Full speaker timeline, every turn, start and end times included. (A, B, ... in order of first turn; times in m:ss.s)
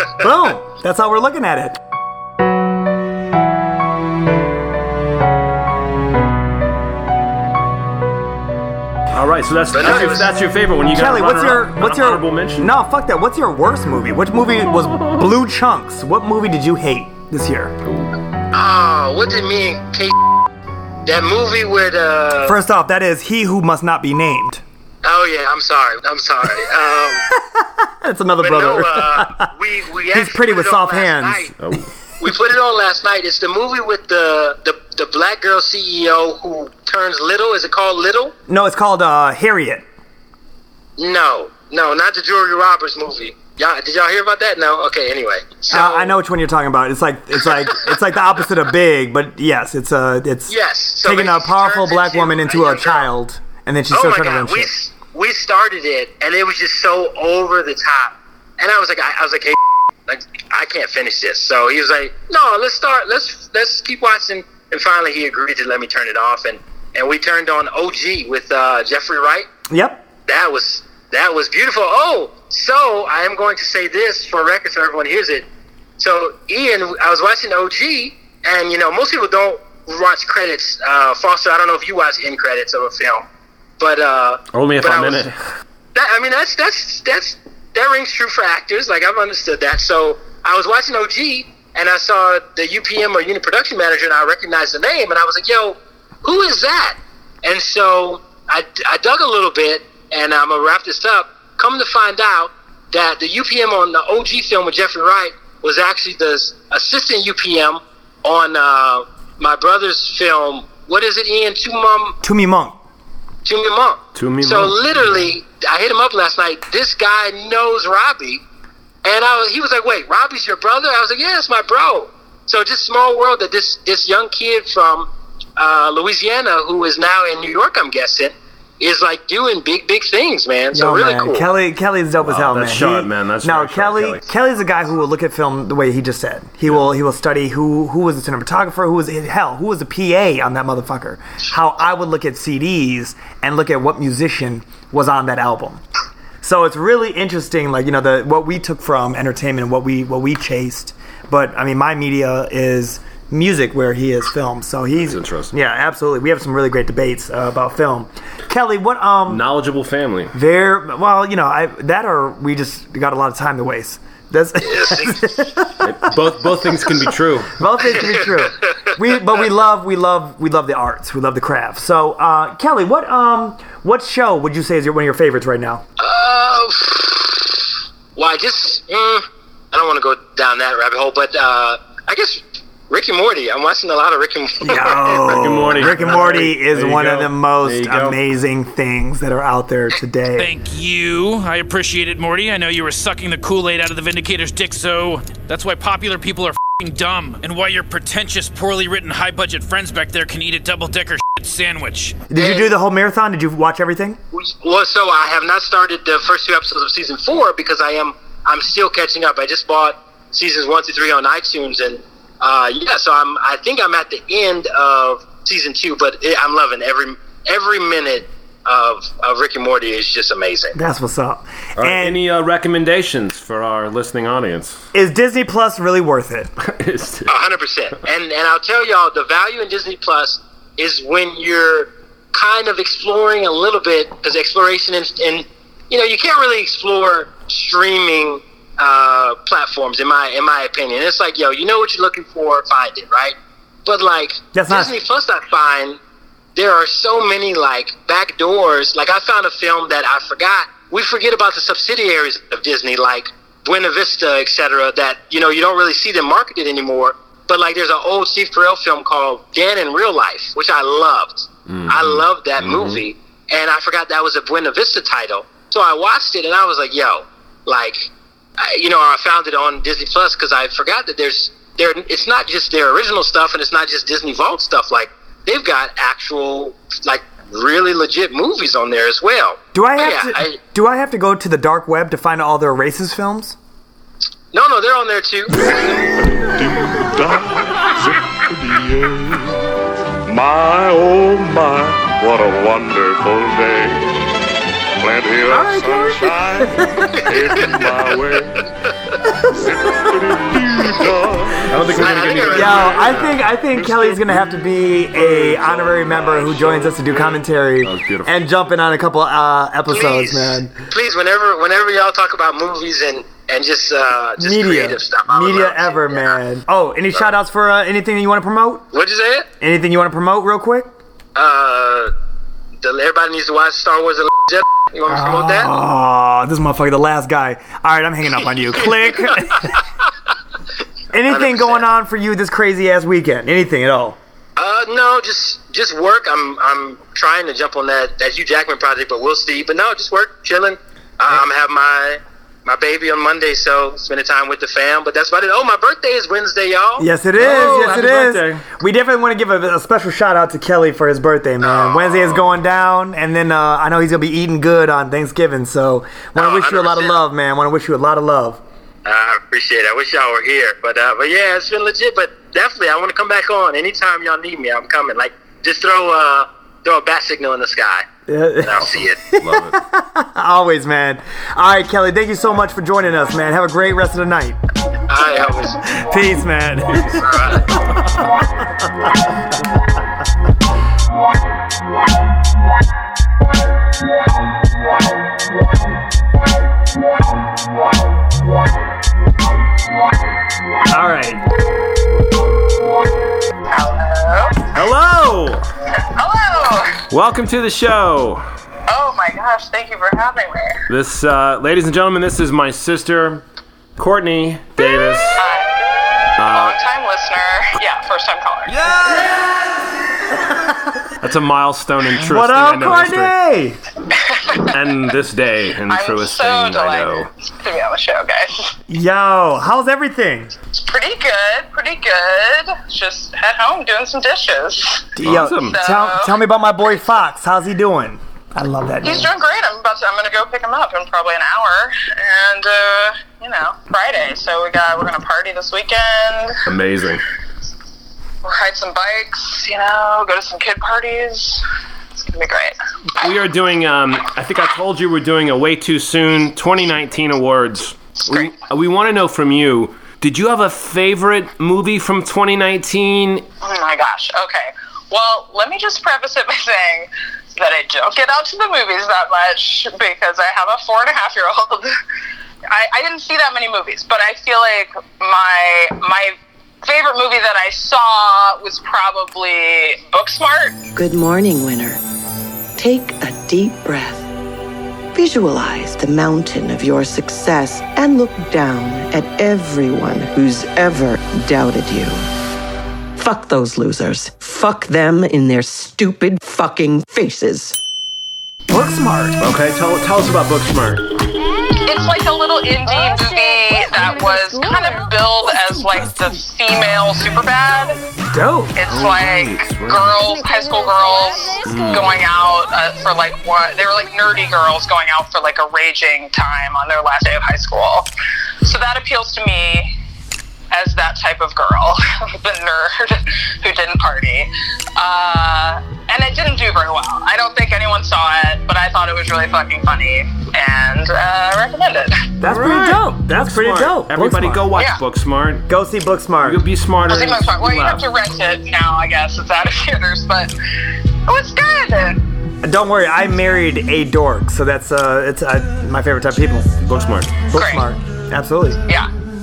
0:00.2-0:01.8 A
0:09.1-0:12.7 B
0:09.7-0:10.3 C
0:10.9-0:17.7 A
0:17.8-0:18.1 B
0:18.5-0:20.1 C
0:21.0-0:22.5 C
0:22.4-0:24.6 A
0:25.0-0:27.2 C
0:27.3-0:29.5 A
0:28.4-0:31.5 C
0:30.1-0:31.5 A
0:31.6-0:31.9 B
0:32.2-0:38.3 C
0:38.5-0:39.8 A
0:41.0-0:46.1 C
0:45.7-0:54.7 A
0:50.5-0:53.1 C
0:53.9-1:09.5 C
1:09.7-1:10.0 A
1:10.3-1:15.4 C
1:16.0-1:23.2 C
1:23.8-1:25.3 C
1:24.5-1:25.4 B
1:25.9-1:52.2 C
1:52.2-1:52.8 A
1:53.4-1:58.4 C
1:54.1-1:54.9 B
1:59.0-2:11.4 C
2:10.7-2:25.8 A
2:12.2-2:14.2 B
2:26.4-2:39.4 A
2:35.0-2:35.5 B
2:39.3-2:40.3 B
2:40.3-2:45.9 A
2:44.6-2:45.3 C
2:45.8-2:47.6 B
2:47.6-2:55.8 A
2:48.2-2:48.9 C
2:56.0-3:05.3 C
3:04.6-3:10.5 A
3:05.2-3:08.2 B
3:10.4-3:22.2 D
3:22.3-3:24.2 A
3:22.4-3:22.7 C
3:24.3-3:40.8 C
3:40.7-3:42.2 A
3:41.8-3:44.8 B
3:44.9-3:46.5 A
3:46.6-3:47.3 B
3:47.3-4:06.0 C
4:04.5-4:04.9 A
4:06.5-4:40.6 C
4:21.7-4:23.0 B
4:39.7-4:43.6 A
4:44.5-4:45.5 C
4:45.8-4:49.7 E
4:50.3-4:54.1 E
4:55.0-4:58.6 E
4:55.5-4:57.3 A
4:59.5-5:02.5 E
5:01.7-5:04.3 B
5:02.0-5:03.0 C
5:02.4-5:10.7 A
5:05.2-5:08.3 B
5:09.9-5:16.4 C
5:14.4-5:18.9 A
5:18.9-5:19.5 C
5:19.6-5:20.9 A
5:21.3-5:22.1 C
5:22.8-5:25.7 C
5:25.1-5:29.7 A
5:31.1-5:34.2 A
5:31.3-5:31.8 C
5:34.6-5:47.0 C
5:47.0-5:58.6 A
5:47.4-5:48.6 B
5:51.6-5:52.2 C
5:56.4-5:57.2 C
5:59.0-6:08.1 C
6:08.3-6:14.6 A
6:08.6-6:09.2 C
6:09.4-6:09.8 B
6:15.1-6:15.8 C
6:15.9-6:17.6 A
6:17.1-6:17.7 C
6:30.9-6:31.4 A
6:33.7-6:34.6 F
6:34.7-6:35.6 B
6:35.9-6:37.0 F
6:37.1-6:38.4 B
6:38.9-6:40.8 F
6:40.9-6:43.4 B
6:44.0-6:45.4 B
6:45.4-6:45.7 F
6:46.4-6:46.8 B
6:46.5-6:48.8 F
6:48.7-6:49.3 B
6:51.2-6:53.3 B
6:52.2-6:53.8 A
6:54.1-6:54.7 F
6:54.7-6:57.3 B
6:55.9-6:58.7 F
6:58.9-7:00.5 A
7:00.7-7:05.1 F
7:05.2-7:09.3 A
7:05.2-7:05.8 B
7:05.6-7:06.3 F
7:09.0-7:16.6 F
7:16.7-7:17.2 B
7:18.4-7:21.6 F
7:22.2-7:23.3 F
7:23.2-7:33.5 B
7:28.3-7:28.5 F
7:33.6-7:41.9 F
7:42.7-7:50.8 F
7:51.0-7:52.0 G
7:52.8-7:54.3 G
7:55.1-8:02.2 G
8:03.2-8:07.8 G
8:08.7-8:09.4 A
8:09.4-8:11.0 B
8:11.8-8:18.0 F
8:18.3-8:18.8 A
8:18.8-8:28.1 F
8:18.8-8:20.1 B
8:21.6-8:22.1 B
8:28.6-8:29.9 F
8:30.7-8:42.3 F
8:42.4-8:44.7 A
8:42.4-8:45.6 B
8:44.7-8:45.0 F
8:45.7-8:46.6 A
8:46.4-8:48.1 B
8:47.0-8:50.5 F
8:51.3-8:52.2 F
8:52.6-8:56.7 A
8:56.8-8:57.4 B
8:57.5-8:58.8 A
8:57.5-8:57.9 F